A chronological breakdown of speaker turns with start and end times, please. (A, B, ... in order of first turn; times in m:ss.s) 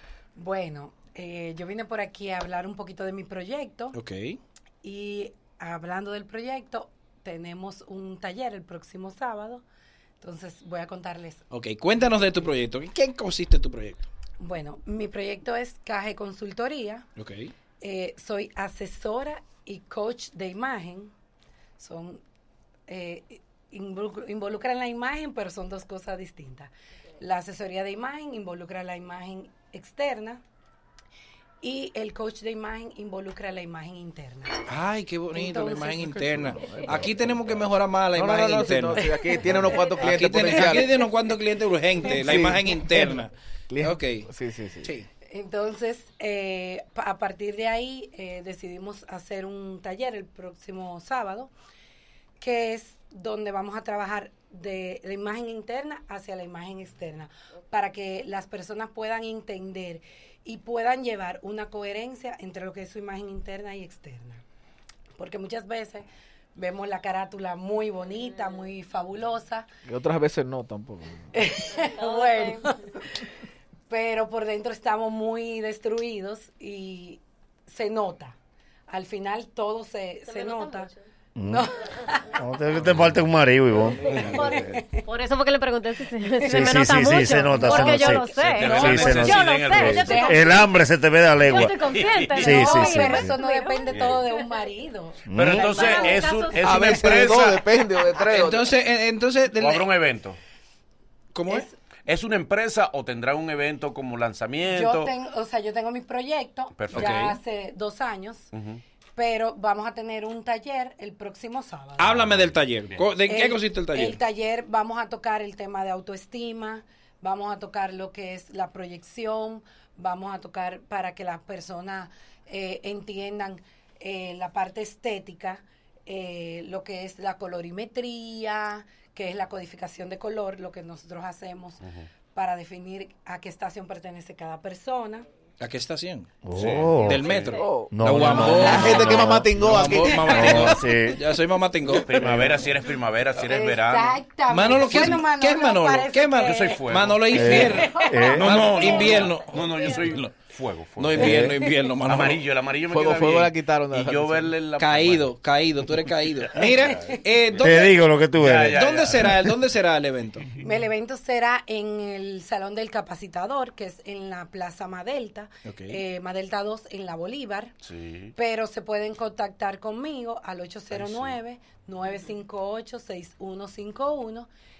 0:00.4-0:04.0 A
0:03.9-0:04.4 B
0:04.8-0:09.6 A
0:10.2-0:11.4 A
0:11.5-0:14.1 B
0:14.4-0:17.1 A
0:17.2-0:17.5 B
0:17.8-0:21.1 A
0:21.8-0:22.2 A
0:22.9-0:30.4 A
0:31.6-0:34.6 A
0:34.7-0:39.0 B
0:35.3-0:36.4 A
0:38.1-0:40.9 C
0:39.1-0:39.5 A
0:40.0-0:44.3 B
0:42.0-0:44.9 C
0:44.8-0:45.1 B
0:45.3-0:51.5 A
0:52.4-1:04.4 A
1:05.2-1:09.7 A
1:09.8-1:11.3 C
1:11.3-1:13.3 A
1:11.7-1:12.7 D
1:13.9-1:18.4 A
1:18.9-1:20.9 A
1:20.3-1:20.9 D
1:21.4-1:21.6 E
1:21.5-1:22.4 A
1:22.3-1:24.3 E
1:24.1-1:24.5 F
1:24.3-1:25.0 A
1:24.4-1:30.6 D
1:26.4-1:30.7 A
1:26.4-1:31.8 E
1:28.1-1:30.4 F
1:31.4-1:34.6 D
1:31.4-1:32.5 F
1:32.3-1:33.4 E
1:32.3-1:36.2 A
1:33.9-1:34.2 F
1:35.3-1:35.7 E
1:35.3-1:37.7 F
1:35.5-1:37.4 D
1:35.8-1:38.7 C
1:38.3-1:39.9 B
1:39.5-1:40.4 F
1:41.3-1:41.7 B
1:41.5-1:41.7 A
1:42.0-1:45.1 F
1:44.7-1:48.5 A
1:46.7-1:47.1 F
1:46.9-1:47.4 B
1:48.5-1:48.8 F
1:49.1-1:52.2 A
1:52.0-1:54.2 B
1:52.2-1:53.0 F
1:53.2-2:11.8 A
2:12.3-2:15.3 A
2:15.6-2:16.3 B
2:16.4-2:17.3 E
2:16.5-2:17.6 F
2:17.0-2:22.4 B
2:17.6-2:20.8 C
2:17.9-2:21.2 E
2:21.9-2:24.2 F
2:22.2-2:22.6 E
2:23.5-2:26.9 A
2:24.5-2:30.3 B
2:24.8-2:25.2 F
2:26.4-2:35.3 F
2:27.3-2:28.5 E
2:27.5-2:29.3 A
2:29.1-2:29.8 D
2:31.0-2:32.4 B
2:32.9-2:34.5 C
2:34.8-2:38.0 B
2:36.4-2:37.7 F
2:37.6-2:38.8 E
2:38.3-2:39.5 F
2:38.7-2:40.5 B
2:40.6-2:47.8 A
2:45.6-2:46.0 B
2:47.8-2:48.3 F
2:48.4-2:54.5 A
2:50.9-2:51.3 F